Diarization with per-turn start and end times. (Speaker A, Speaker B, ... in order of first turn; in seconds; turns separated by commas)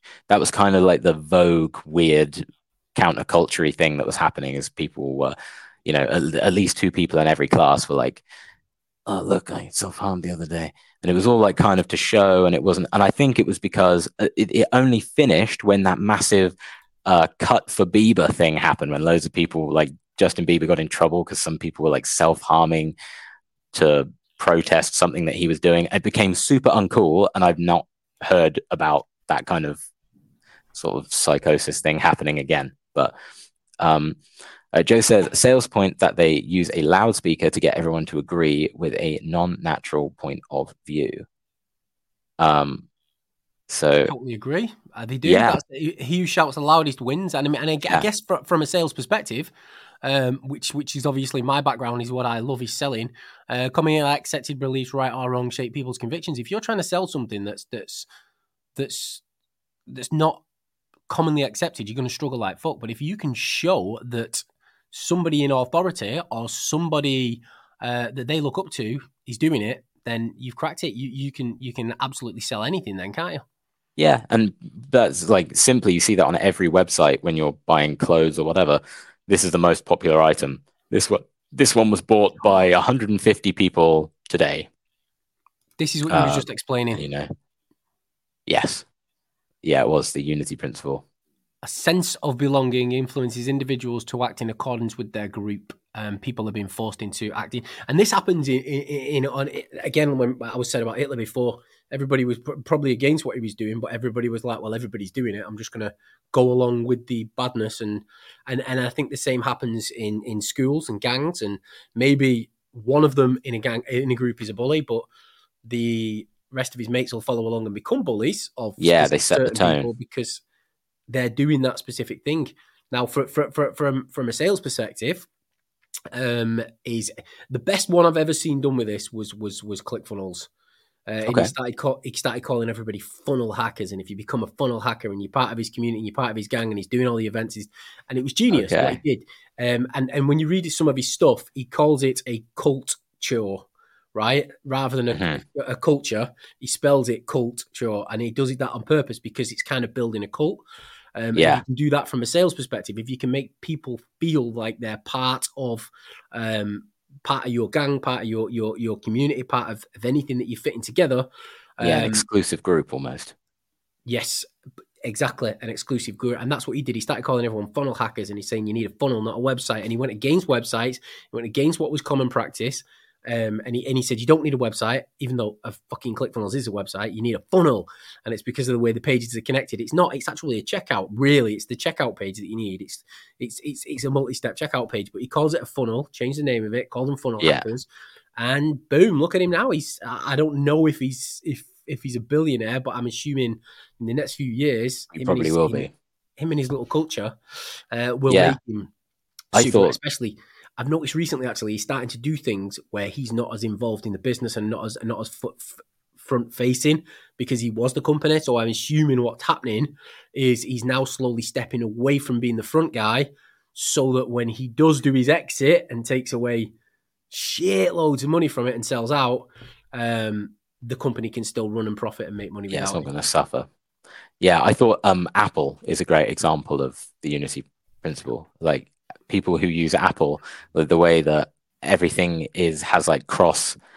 Speaker A: 0.3-8.2, Speaker A: 9.1-22.9, Speaker A: 23.7-29.8, Speaker A: 30.7-33.1, Speaker A: 33.8-34.2, Speaker A: 34.7-41.2, Speaker A: 42.4-42.9, Speaker A: 43.7-44.1, Speaker B: 44.0-49.5, Speaker A: 45.2-45.6, Speaker B: 50.0-58.1, Speaker B: 58.8-59.2, Speaker B: 59.9-60.4, Speaker B: 61.1-73.4, Speaker A: 74.0-84.7, Speaker B: 85.8-87.0, Speaker A: 86.1-87.3, Speaker A: 88.5-88.8, Speaker A: 89.6-91.0, Speaker B: 91.6-115.0, Speaker B: 115.6-120.4, Speaker A: 118.8-119.9, Speaker B: 121.1-125.3, Speaker B: 126.1-130.5, Speaker B: 131.1-150.6, Speaker A: 131.2-131.5, Speaker A: 138.7-139.0, Speaker A: 145.1-145.4, Speaker B: 151.2-161.3, Speaker A: 151.3-151.6, Speaker B: 161.8-162.2, Speaker A: 161.8-163.3, Speaker B: 164.1-164.5, Speaker B: 165.0-187.8, Speaker A: 187.4-187.6, Speaker B: 188.4-198.9, Speaker A: 195.1-195.9, Speaker A: 198.3-198.6, Speaker B: 199.5-216.7, Speaker A: 199.5-199.9, Speaker B: 217.3-223.1, Speaker A: 222.7-223.7, Speaker A: 224.4-233.8